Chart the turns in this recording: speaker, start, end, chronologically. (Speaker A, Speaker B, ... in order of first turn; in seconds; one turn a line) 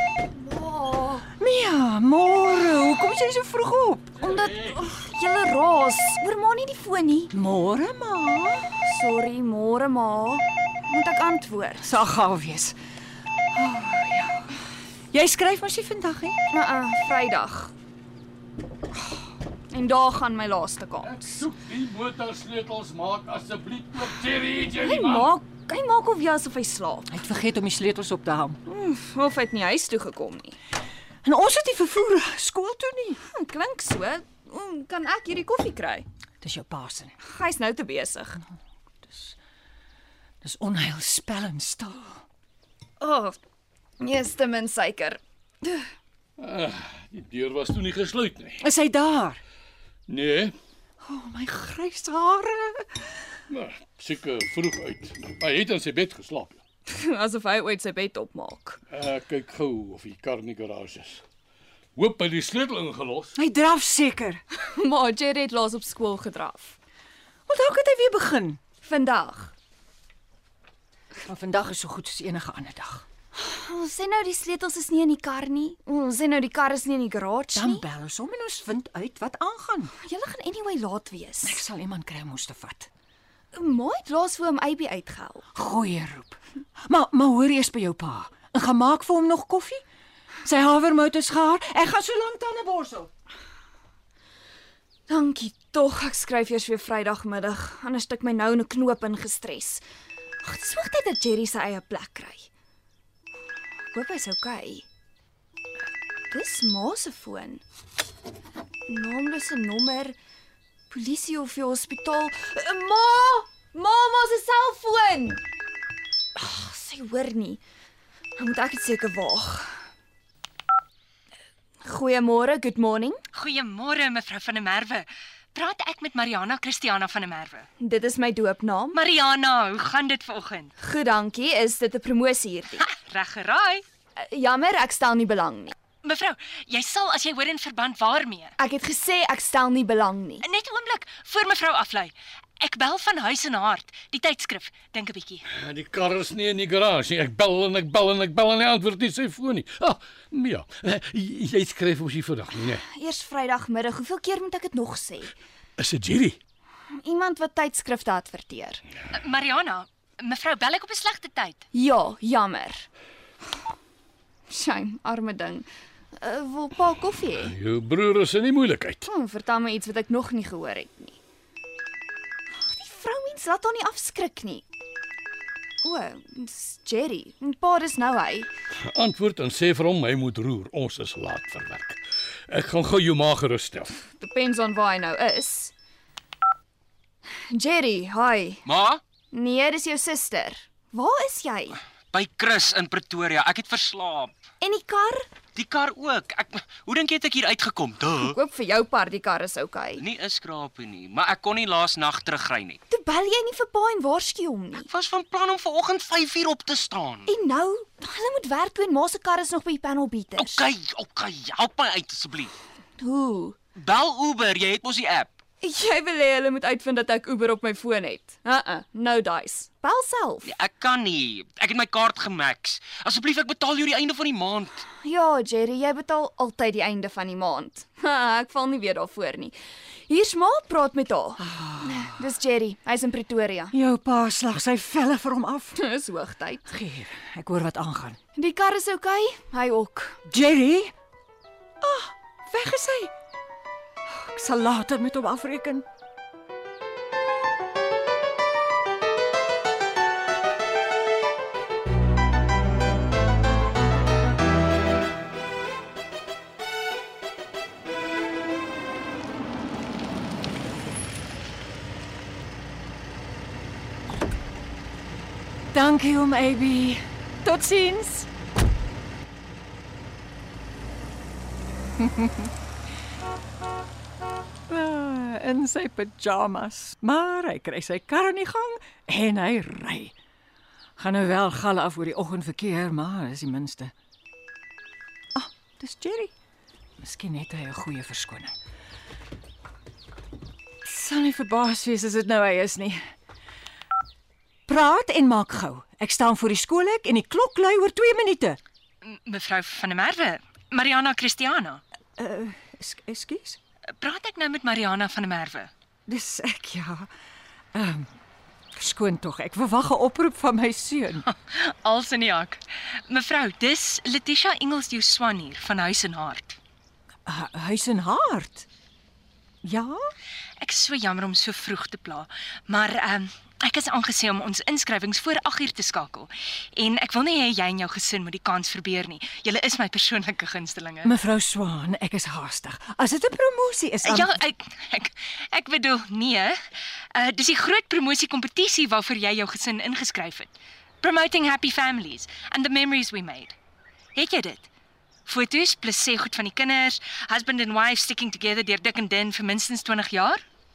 Speaker A: 0.3-1.3
Speaker B: 1.3-4.3
Speaker A: 4.2-7.3
Speaker C: 4.2-4.9
Speaker B: 7.3-8.7
Speaker A: 8.7-11.9
Speaker B: 11.8-12.8
Speaker B: 13.5-14.6
Speaker B: 15.1-16.4
Speaker A: 16.5-17.7
Speaker A: 19.7-21.4
Speaker C: 21.0-25.3
Speaker A: 24.8-27.1
Speaker B: 27.1-28.6
Speaker A: 28.6-30.6
Speaker B: 31.2-33.2
Speaker A: 33.3-36.0
Speaker B: 36.4-37.1
Speaker A: 37.2-38.4
Speaker B: 39.0-39.4
Speaker B: 40.4-42.2
Speaker A: 43.0-43.4
Speaker A: 44.0-45.8
Speaker C: 46.4-48.6
Speaker B: 48.6-49.4
Speaker C: 50.1-50.5
Speaker B: 51.0-53.1
Speaker C: 53.5-56.6
Speaker A: 56.9-58.8
Speaker C: 58.9-61.2
Speaker C: 62.0-63.3
Speaker B: 63.3-64.4
Speaker A: 64.5-66.8
Speaker B: 67.5-68.6
Speaker A: 68.8-69.5
Speaker B: 71.2-73.0
Speaker A: 73.3-77.8
Speaker B: 77.5-79.9
Speaker A: 80.0-81.6
Speaker B: 81.4-82.9
Speaker A: 83.5-85.5
Speaker B: 85.5-89.8
Speaker B: 90.4-93.1
Speaker A: 95.1-99.8
Speaker A: 100.4-102.5
Speaker A: 103.9-104.8
Speaker A: 106.3-107.6
Speaker A: 108.9-110.2
Speaker A: 110.9-115.4
Speaker A: 116.3-117.6
Speaker A: 118.4-119.7
Speaker A: 121.8-123.2
Speaker D: 123.3-127.7
Speaker A: 127.8-129.0
Speaker D: 128.9-130.7
Speaker A: 130.8-132.9
Speaker D: 132.8-133.8
Speaker A: 134.2-135.8
Speaker D: 136.0-138.5
Speaker A: 138.6-140.4
Speaker D: 140.4-145.4
Speaker C: 145.5-152.8
Speaker A: 152.8-155.3
Speaker C: 155.8-156.4
Speaker A: 157.0-158.8
Speaker D: 159.1-161.6
Speaker A: 161.7-162.9
Speaker A: 164.5-165.7
Speaker A: 166.2-167.5
Speaker C: 167.3-169.0
Speaker A: 169.0-171.2
Speaker A: 172.6-174.6
Speaker A: 175.8-178.5
Speaker C: 178.9-184.1
Speaker A: 184.1-185.7
Speaker A: 187.5-188.6
Speaker E: 188.7-189.0
Speaker A: 189.3-191.8
Speaker E: 192.1-194.4
Speaker A: 194.6-195.3
Speaker E: 195.5-198.4
Speaker A: 198.2-200.1
Speaker E: 200.0-202.8
Speaker A: 202.9-204.9
Speaker E: 204.8-207.3
Speaker A: 207.3-210.6
Speaker E: 210.3-212.5
Speaker A: 213.0-213.6
Speaker E: 213.8-215.4
Speaker A: 215.6-220.5
Speaker E: 220.4-224.8
Speaker A: 224.9-229.5
Speaker A: 230.1-233.7
Speaker B: 231.4-232.1
Speaker B: 233.7-235.8
Speaker A: 235.8-236.6
Speaker B: 236.7-238.2
Speaker A: 238.3-240.2
Speaker B: 240.2-240.9
Speaker B: 241.8-243.1
Speaker B: 244.1-245.8
Speaker B: 265.7-268.3
Speaker B: 272.0-272.5
Speaker B: 274.7-280.1
Speaker B: 281.0-283.9
Speaker B: 285.3-286.3
Speaker B: 287.0-288.5
Speaker B: 290.8-293.0
Speaker B: 294.7-298.6
Speaker D: 299.0-301.8
Speaker B: 302.2-303.6
Speaker D: 304.0-305.7
Speaker B: 306.1-307.1
Speaker B: 307.7-308.1
Speaker B: 308.8-311.2
Speaker D: 311.3-316.6
Speaker B: 317.3-318.6
Speaker B: 319.6-320.1
Speaker D: 320.6-331.1
Speaker B: 331.0-334.4
Speaker D: 334.0-336.6
Speaker D: 337.1-343.5
Speaker D: 344.1-344.7
Speaker D: 345.2-350.4